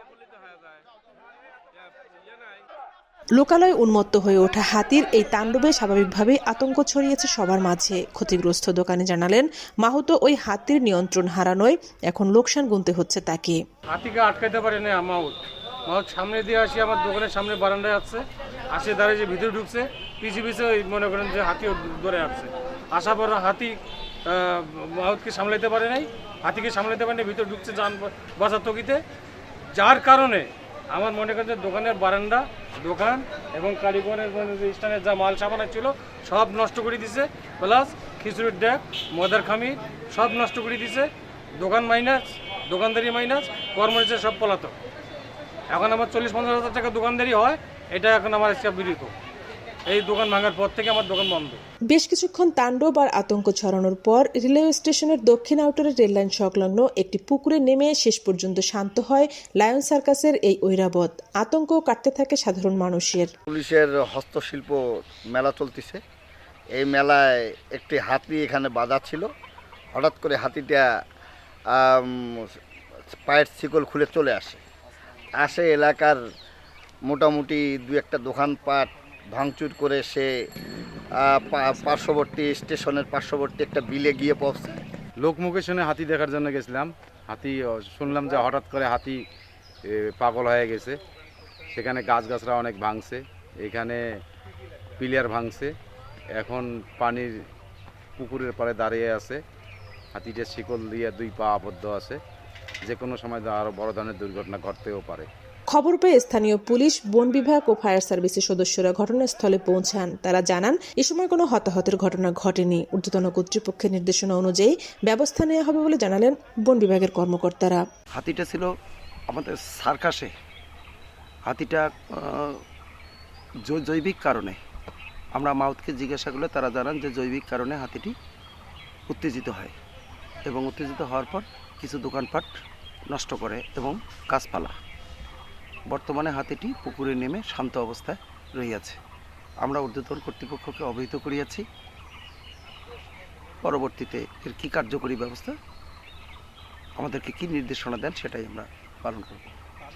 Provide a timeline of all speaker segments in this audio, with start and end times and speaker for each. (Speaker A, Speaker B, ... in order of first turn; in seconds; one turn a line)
Speaker A: 3.4-13.6
Speaker B: 13.9-29.0
Speaker B: 29.7-44.7
Speaker B: 45.7-49.1
Speaker B: 49.9-51.6
Speaker A: 51.9-63.3
Speaker C: 63.5-64.8
Speaker C: 65.3-66.0
Speaker C: 66.7-69.3
Speaker C: 69.9-70.8
Speaker C: 71.7-72.6
Speaker C: 73.1-74.6
Speaker C: 75.3-76.2
Speaker C: 77.0-80.3
Speaker C: 81.2-84.8
Speaker D: 85.2-89.2
Speaker D: 89.8-91.0
Speaker D: 91.7-94.0
Speaker D: 95.0-95.7
Speaker D: 96.3-97.3
Speaker D: 98.2-99.4
Speaker D: 100.1-102.2
Speaker D: 102.8-105.3
Speaker A: 105.7-117.8
Speaker E: 118.1-118.7
Speaker E: 119.3-120.3
Speaker E: 121.5-122.6
Speaker E: 123.7-124.6
Speaker E: 125.3-128.1
Speaker E: 129.1-129.7
Speaker E: 130.4-132.5
Speaker E: 133.1-134.8
Speaker E: 135.9-139.0
Speaker E: 139.6-141.7
Speaker E: 143.6-145.6
Speaker E: 147.0-149.5